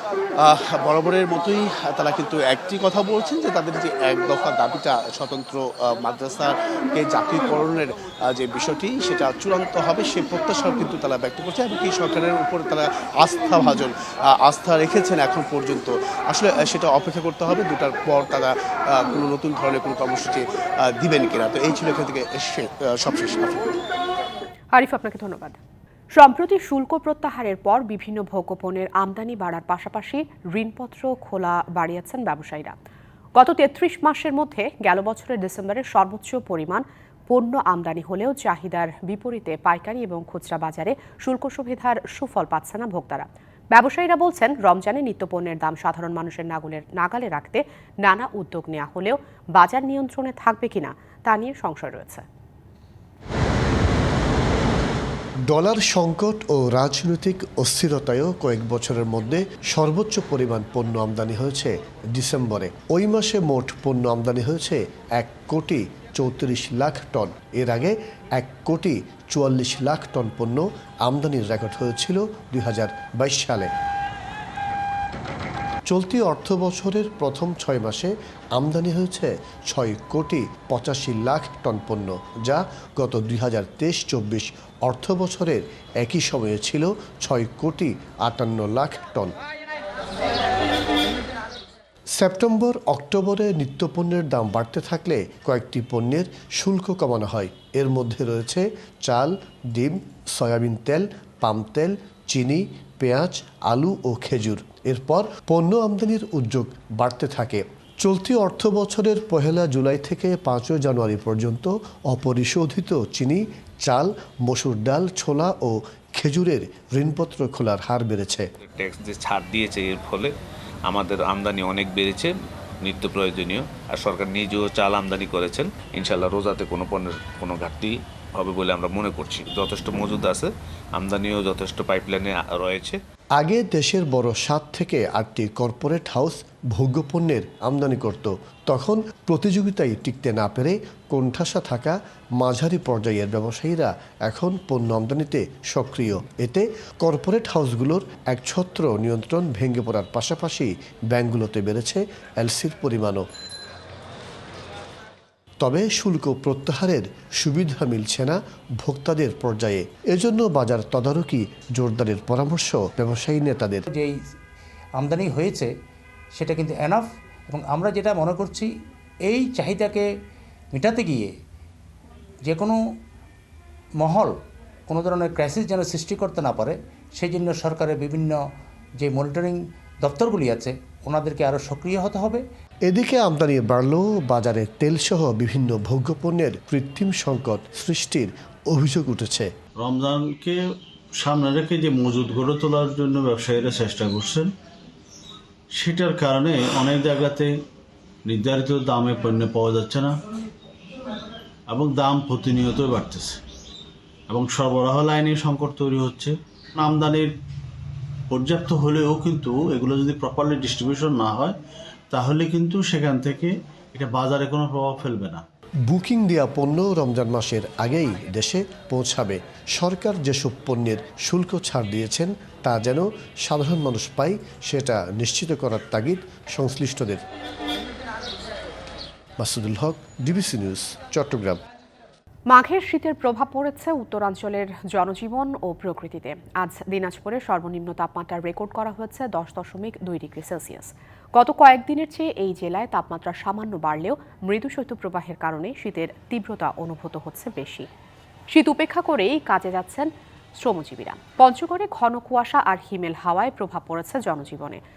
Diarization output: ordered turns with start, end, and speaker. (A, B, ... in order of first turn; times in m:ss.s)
0:00.4-0:23.7 A
0:24.7-0:25.6 B
0:26.1-0:32.8 B
0:33.4-0:52.2 B
0:55.5-1:13.7 C
1:15.9-1:29.4 C
1:32.2-1:58.5 C
1:58.6-2:00.3 D
2:00.9-2:13.0 D
2:13.4-2:33.3 C
2:35.6-2:43.9 C
2:43.9-2:44.2 E
2:45.0-2:45.7 E
2:46.3-2:48.7 E
2:49.2-2:50.1 E
2:50.7-2:51.3 E
2:52.4-2:52.9 E
2:54.0-2:54.4 E
2:54.9-2:58.5 E
2:59.0-3:02.4 E
3:02.8-3:09.5 C
3:09.8-3:10.6 F
3:11.2-3:14.5 F
3:15.8-3:17.5 F
3:18.3-3:20.1 F
3:21.7-3:23.4 F
3:24.3-3:27.3 F
3:28.3-3:31.6 F
3:32.1-3:35.4 F
3:35.9-3:47.2 C
3:49.4-3:51.6 C
3:52.5-4:07.9 B
4:08.5-4:14.8 B